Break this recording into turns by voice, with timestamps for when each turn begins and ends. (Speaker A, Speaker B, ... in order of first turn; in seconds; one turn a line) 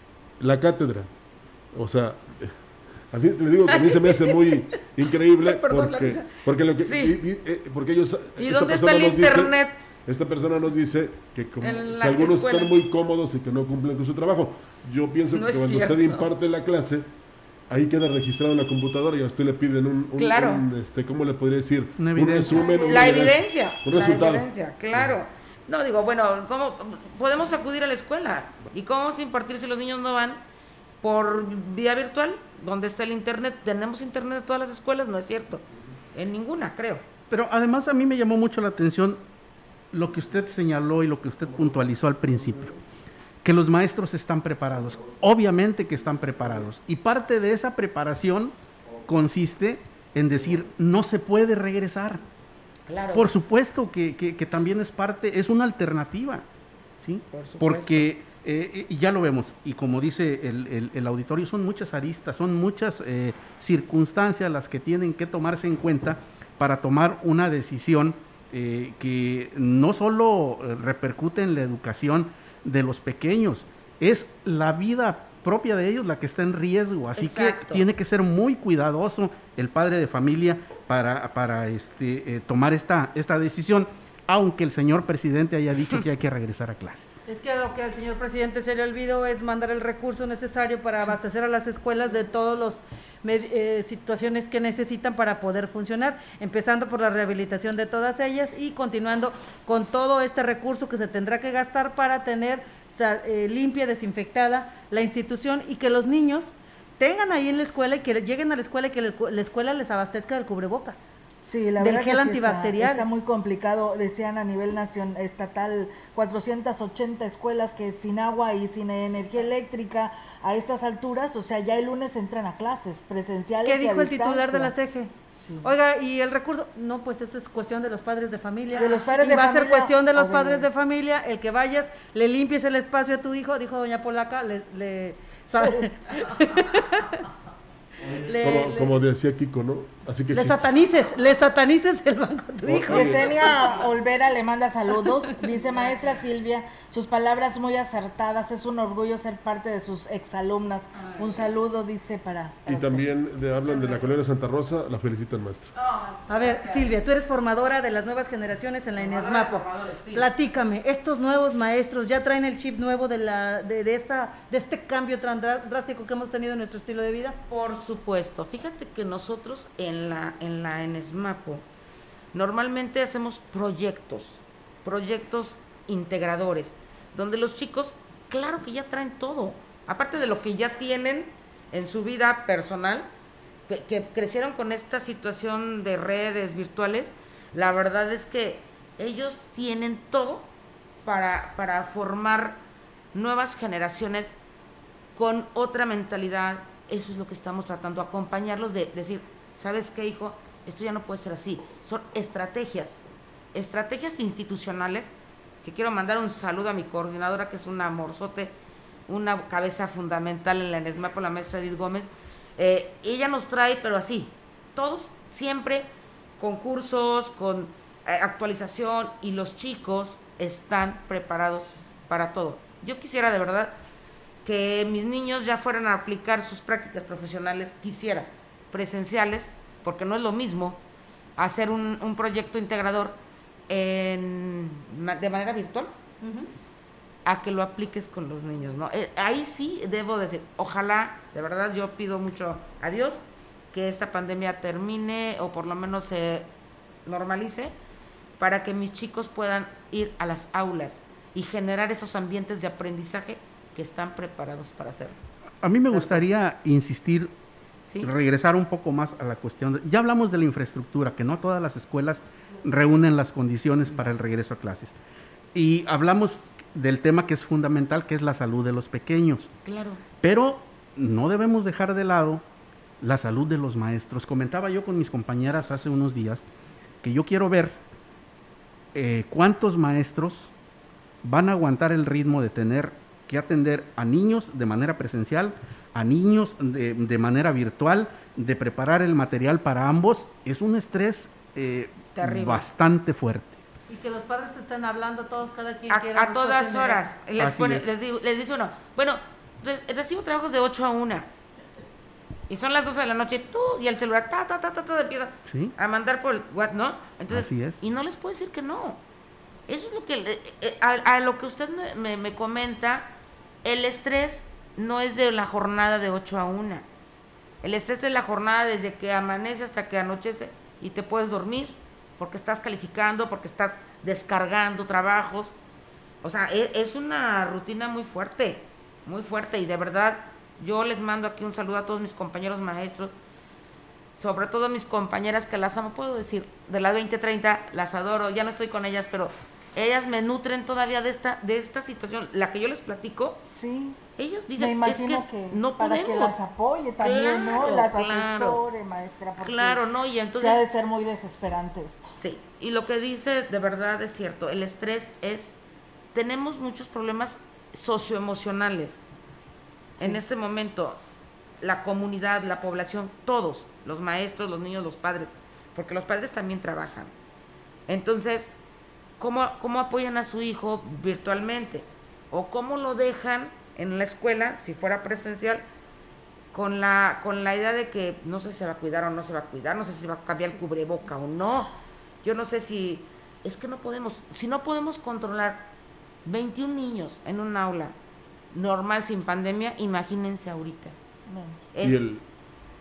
Speaker A: 0.4-1.1
Speaker A: 1.7-2.5
Speaker A: 3.1-9.5
Speaker B: 3.7-7.2
Speaker B: 8.4-9.8
Speaker A: 10.1-17.1
Speaker B: 11.6-12.8
Speaker B: 15.3-16.3
Speaker A: 17.7-25.1
Speaker B: 20.1-20.6
Speaker C: 22.0-22.7
Speaker D: 22.5-23.1
Speaker B: 22.7-30.4
Speaker B: 31.0-35.6
Speaker B: 36.1-37.0
Speaker C: 37.3-39.2
Speaker C: 39.9-42.7
Speaker C: 43.4-48.5
Speaker C: 49.0-52.2
Speaker B: 52.9-53.3
Speaker C: 53.1-56.5
Speaker C: 57.0-87.2
Speaker B: 57.3-58.1
Speaker B: 77.2-77.8
Speaker E: 87.3-111.1
Speaker D: 111.4-124.7
Speaker E: 111.8-113.0
Speaker E: 123.6-137.2
Speaker D: 125.3-125.7
Speaker D: 128.7-130.7
Speaker A: 138.0-140.6
Speaker E: 138.2-138.9
Speaker E: 140.3-143.5
Speaker A: 142.6-143.4
Speaker D: 142.9-153.1
Speaker B: 150.9-151.5
Speaker A: 152.7-155.7
Speaker B: 153.6-154.1
Speaker B: 155.7-156.9
Speaker E: 156.3-167.4
Speaker B: 159.0-160.3
Speaker B: 167.5-171.6
Speaker B: 172.3-183.1
Speaker B: 183.7-190.5
Speaker B: 191.1-192.6
Speaker B: 193.1-194.3
Speaker B: 195.2-203.0
Speaker B: 203.5-205.1
Speaker B: 205.6-208.5
Speaker B: 209.1-215.9
Speaker B: 216.4-223.7
Speaker B: 224.4-230.8
Speaker B: 231.4-233.2
Speaker B: 233.7-235.9
Speaker E: 236.2-236.5
Speaker B: 237.3-243.2
Speaker B: 243.7-246.5
Speaker B: 247.1-247.7
Speaker B: 248.4-255.2
Speaker C: 255.6-257.3
Speaker B: 255.9-256.2
Speaker B: 257.9-258.1
Speaker C: 258.0-264.9
Speaker C: 265.6-269.5
Speaker B: 269.6-270.0
Speaker C: 270.2-272.4
Speaker C: 273.0-276.4
Speaker C: 277.0-277.8
Speaker C: 278.9-280.5
Speaker C: 281.2-293.6
Speaker B: 292.1-292.6
Speaker E: 293.9-297.1
Speaker B: 295.9-301.3
Speaker C: 297.4-297.9
Speaker B: 302.5-309.0
Speaker C: 305.5-305.7
Speaker C: 307.3-307.8
Speaker B: 309.7-313.1
Speaker B: 313.6-316.9
Speaker B: 317.6-325.5
Speaker B: 326.2-333.1
Speaker B: 334.1-343.4
Speaker D: 343.4-344.0
Speaker B: 344.2-346.4
Speaker D: 344.6-349.8
Speaker B: 347.0-348.6
Speaker B: 349.4-350.6
Speaker D: 350.4-352.1
Speaker B: 352.1-355.5
Speaker B: 356.1-359.1
Speaker B: 360.0-361.0
Speaker B: 361.6-367.1
Speaker B: 367.9-368.5
Speaker B: 369.2-375.6
Speaker B: 376.5-381.7
Speaker B: 382.2-385.6
Speaker B: 386.2-387.9
Speaker B: 388.5-390.9
Speaker D: 391.3-391.6
Speaker B: 391.7-392.1
Speaker A: 391.8-392.2